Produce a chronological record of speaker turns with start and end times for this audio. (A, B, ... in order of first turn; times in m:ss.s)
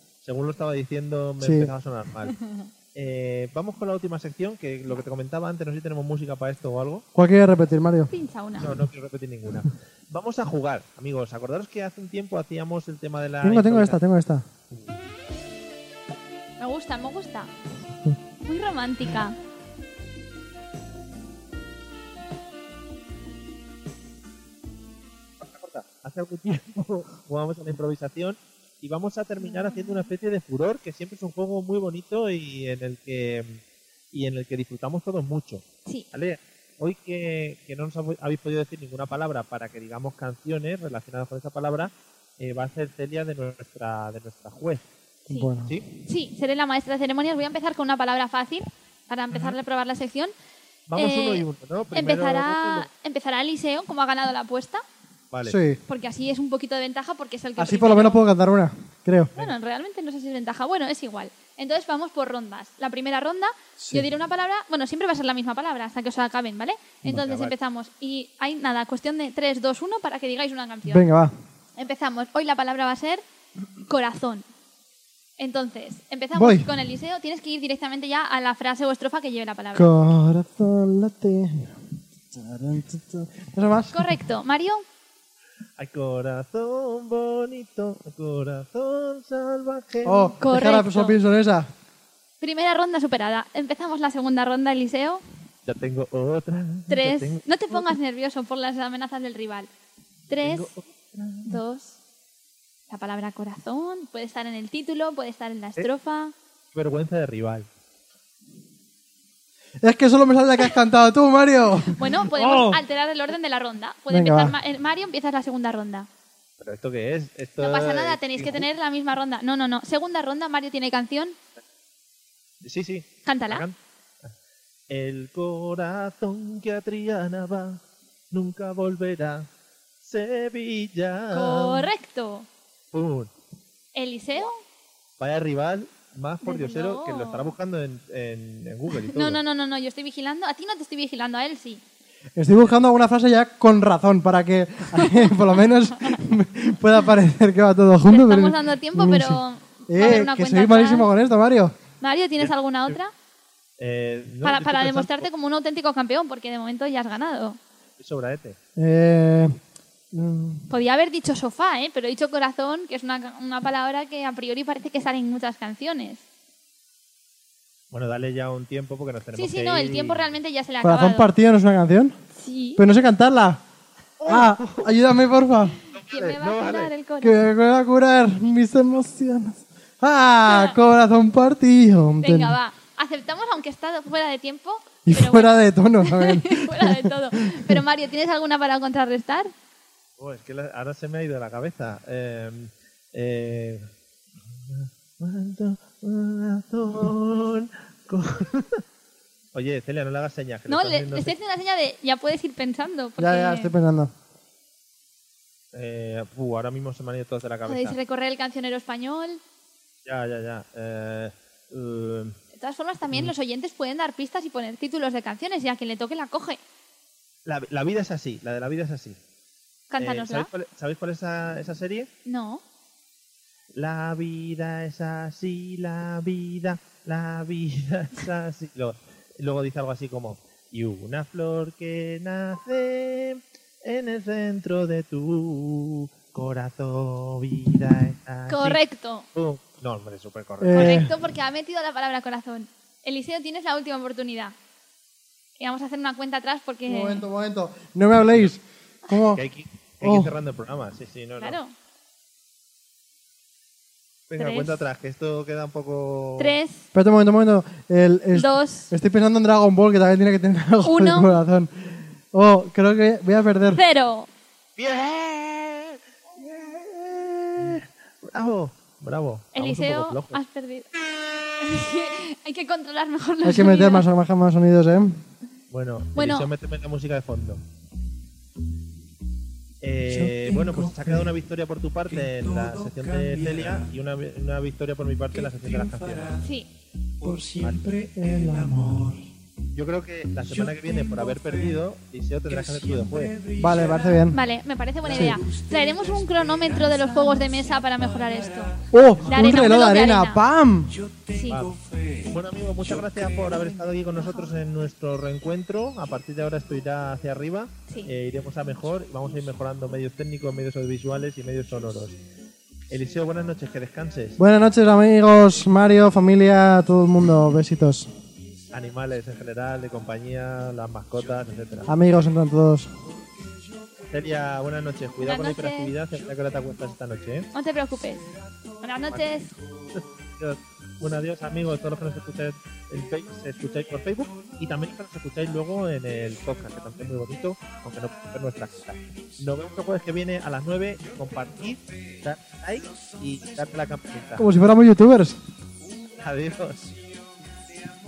0:00.2-0:02.4 A
0:01.4-0:01.7 B
0:02.9-0:07.0 A
0:07.2-0:08.1 B
0:08.1-0:08.7 C
0:08.6-0:14.0 A
0:13.4-0:14.4 B
0:14.7-0:15.0 A
0:16.6-0:17.5 C
0:18.4-0:19.4 C
0:25.4-0:44.9 A
0:29.4-0:30.1 C
0:45.3-0:45.8 B
0:46.1-0:50.3 C
0:49.3-0:49.6 A
0:50.9-0:52.9 A
0:51.0-0:51.4 C
0:51.9-0:54.8 C
0:55.3-0:55.6 A
0:55.4-0:55.8 B
0:55.9-0:58.2 C
0:57.6-0:59.3 B
0:59.4-1:11.1 C
1:03.8-1:04.1 B
1:07.1-1:07.5 A
1:10.9-1:11.3 B
1:11.8-1:13.2 C
1:13.9-1:14.5 C
1:15.4-1:19.9 C
1:16.4-1:16.7 B
1:19.7-1:24.0 B
1:23.9-1:24.8 C
1:25.8-1:30.3 A
1:30.0-1:31.7 B
1:30.4-1:31.2 C
1:32.4-1:35.2 C
1:35.7-1:37.9 A
1:36.9-1:39.7 C
1:40.3-1:40.7 C
1:40.4-1:41.6 A
1:41.4-1:42.0 C
1:42.9-1:46.3 C
1:46.7-1:47.7 A
1:49.8-1:52.8 B
1:51.9-1:56.1 C
1:54.1-1:54.6 B
1:56.6-1:58.7 A
1:57.6-2:01.4 C
2:02.6-2:04.3 A
2:03.2-2:03.6 C
2:04.9-2:07.8 A
2:08.3-2:09.5 A
2:10.0-2:11.9 A
2:11.3-2:12.5 C
2:12.9-2:13.3 A
2:14.0-2:14.6 C
2:15.2-2:19.4 A
2:16.4-2:17.5 C
2:19.1-2:21.8 C
2:22.4-2:31.7 B
2:28.1-2:31.1 C
2:32.0-2:33.1 C
2:33.8-2:35.3 A
2:34.4-2:37.6 C
2:38.0-2:38.6 A
2:38.8-2:39.6 B
2:40.1-2:40.7 B
2:40.7-2:46.2 C
2:47.9-2:50.3 A
2:49.4-2:51.3 C
2:50.8-2:52.2 B
2:52.4-2:52.8 C
2:52.8-2:53.6 B
2:54.2-2:55.1 A
2:54.2-2:55.8 B
2:55.9-2:56.9 A
2:56.0-2:57.4 C
2:57.2-3:02.6 B
3:00.5-3:00.8 C
3:02.2-3:09.5 C
3:05.0-3:07.8 B
3:10.2-3:13.8 A
3:14.4-3:18.8 A
3:19.5-3:21.3 A
3:20.7-3:23.7 C
3:23.2-3:24.1 B
3:25.7-3:28.0 A
3:27.7-3:29.4 C
3:30.1-3:32.4 A
3:32.6-3:36.6 C
3:37.5-3:39.2 A
3:39.9-3:40.5 C
3:40.0-3:42.1 A
3:42.3-3:42.6 C
3:43.7-3:58.8 A
3:58.5-3:59.2 C
3:59.4-4:01.1 A
4:00.6-4:01.1 B
4:00.7-4:04.5 C
4:05.6-4:07.2 C
4:06.9-4:09.4 B
4:09.4-4:11.6 A
4:10.0-4:10.3 B
4:11.4-4:11.7 C
4:14.3-4:16.6 A
4:14.4-4:14.8 C
4:16.4-4:16.8 C
4:16.9-4:23.8 B
4:18.3-4:18.9 C
4:20.8-4:21.3 C
4:23.7-4:24.3 C
4:24.8-4:30.4 A
4:29.6-4:30.9 C
4:31.6-4:34.1 C
4:33.4-4:35.2 B
4:35.7-4:37.6 A
4:36.2-4:36.5 C
4:39.8-4:46.4 A
4:40.1-4:41.1 B
4:46.4-4:46.7 C
4:47.2-4:49.3 B
4:49.8-4:53.5 A
4:53.5-4:54.4 B
4:54.3-5:00.4 C
4:55.1-4:55.4 B
4:58.9-5:01.1 B
5:01.3-5:01.7 C
5:01.5-5:12.2 A
5:04.2-5:04.5 C
5:12.9-5:14.4 A
5:14.4-5:18.1 B
5:18.7-5:21.9 A
5:21.9-5:22.9 B
5:24.0-5:27.5 A
5:25.2-5:25.9 C
5:27.5-5:29.5 C
5:29.1-5:44.5 A
5:44.4-5:45.4 B
5:46.2-5:47.0 A